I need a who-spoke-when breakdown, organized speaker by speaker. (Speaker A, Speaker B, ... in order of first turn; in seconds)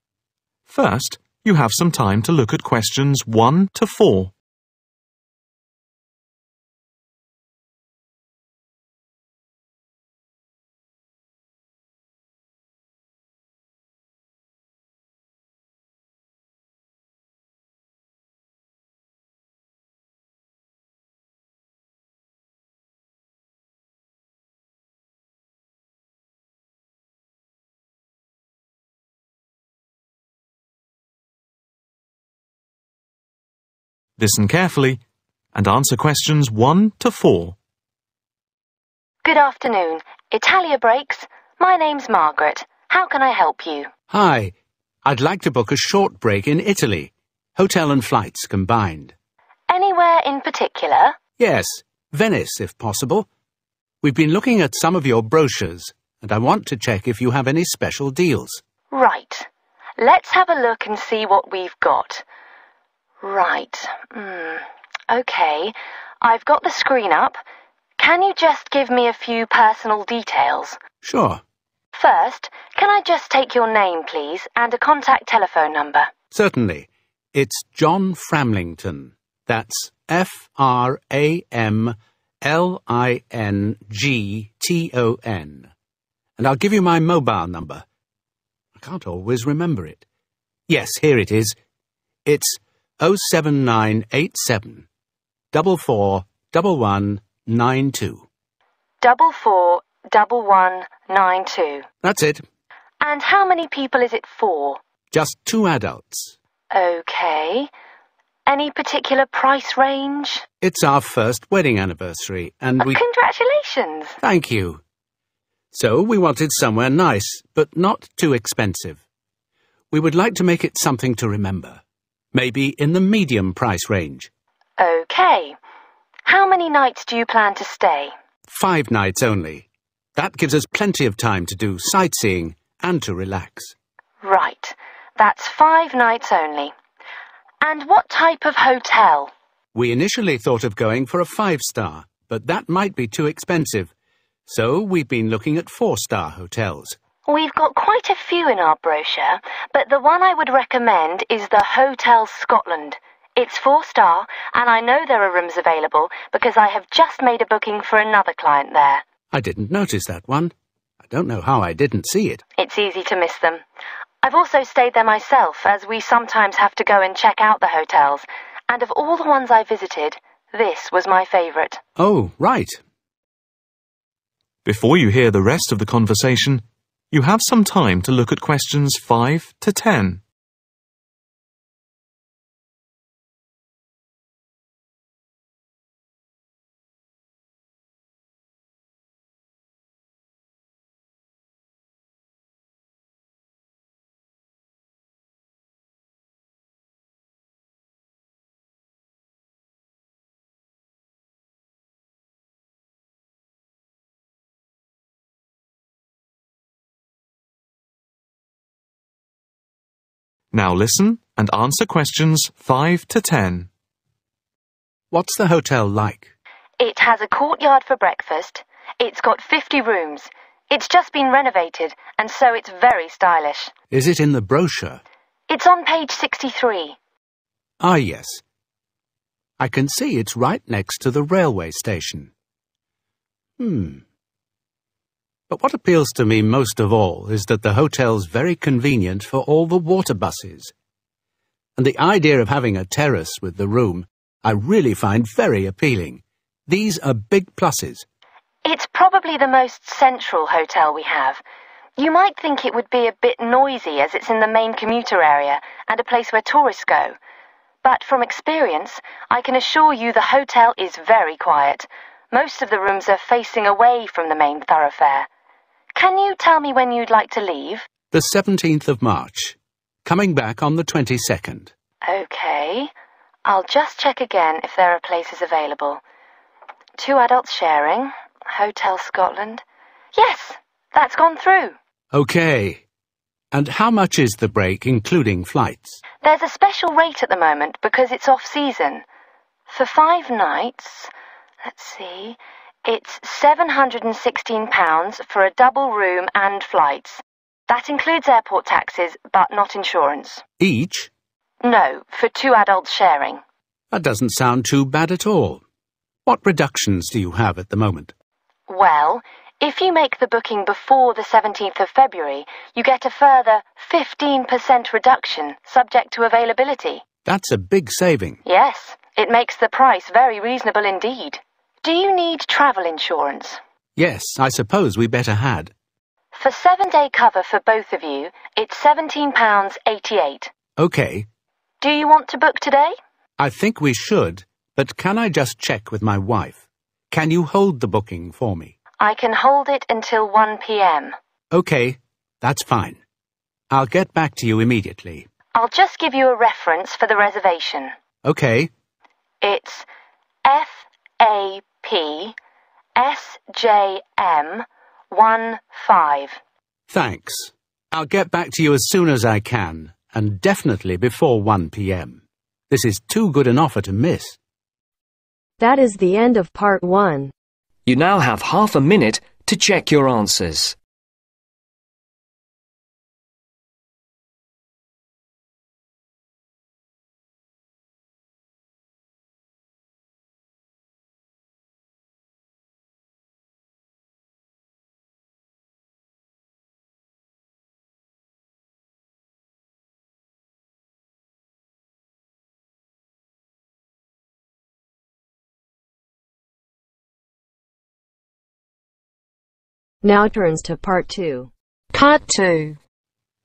Speaker A: 0.7-4.3, 34.2-35.0, 35.5-37.5, 174.7-180.2, 210.5-213.7
Speaker B: 39.2-43.9, 49.7-51.2, 58.9-62.2, 63.2-67.4, 68.0-70.8, 71.9-76.1, 99.0-101.9, 103.0-104.8, 106.7-107.7, 108.5-110.4, 112.8-114.2, 124.8-125.6, 126.2-128.1, 134.2-136.7, 137.6-139.3, 147.3-159.0, 162.6-163.6, 164.2-171.8, 216.8-223.7, 225.5-227.0, 248.7-251.4, 252.0-257.1, 257.8-265.3, 265.9-267.9, 272.1-272.9, 273.4-276.0, 277.0-279.6, 280.1-281.8, 286.2-289.1, 289.7-291.1, 291.7-300.4, 301.6-303.4, 308.7-317.0, 318.4-323.6, 326.4-330.5, 331.8-332.9, 339.0-341.1, 345.6-347.9, 349.4-349.9, 350.4-352.4, 353.0-356.4, 401.9-402.8
Speaker C: 44.1-44.5, 45.0-49.1, 51.4-53.3, 54.0-58.6, 71.0-71.4, 76.3-85.7, 86.4-87.8, 88.8-90.0, 90.7-91.6, 92.2-94.9, 95.5-98.2, 102.0-102.4, 105.1-106.3, 110.6-113.0, 114.2-114.8, 115.7-119.0, 119.9-121.8, 122.3-124.3, 128.5-133.8, 139.7-143.9, 144.5-147.0, 159.3-162.4, 172.0-172.8, 215.1-216.3, 223.9-225.0, 227.8-228.4, 229.6-232.3, 233.6-234.0, 235.5-240.7, 241.8-248.1, 268.1-271.7, 282.1-282.8, 283.5-286.0, 300.6-301.1, 303.9-305.6, 306.3-308.1, 317.2-318.4, 324.0-325.7, 330.8-331.3, 333.4-338.7, 341.5-343.0, 343.7-345.3, 348.2-348.7, 356.9-364.4
Speaker D: 365.6-367.3, 400.0-401.5
Speaker E: 367.9-370.8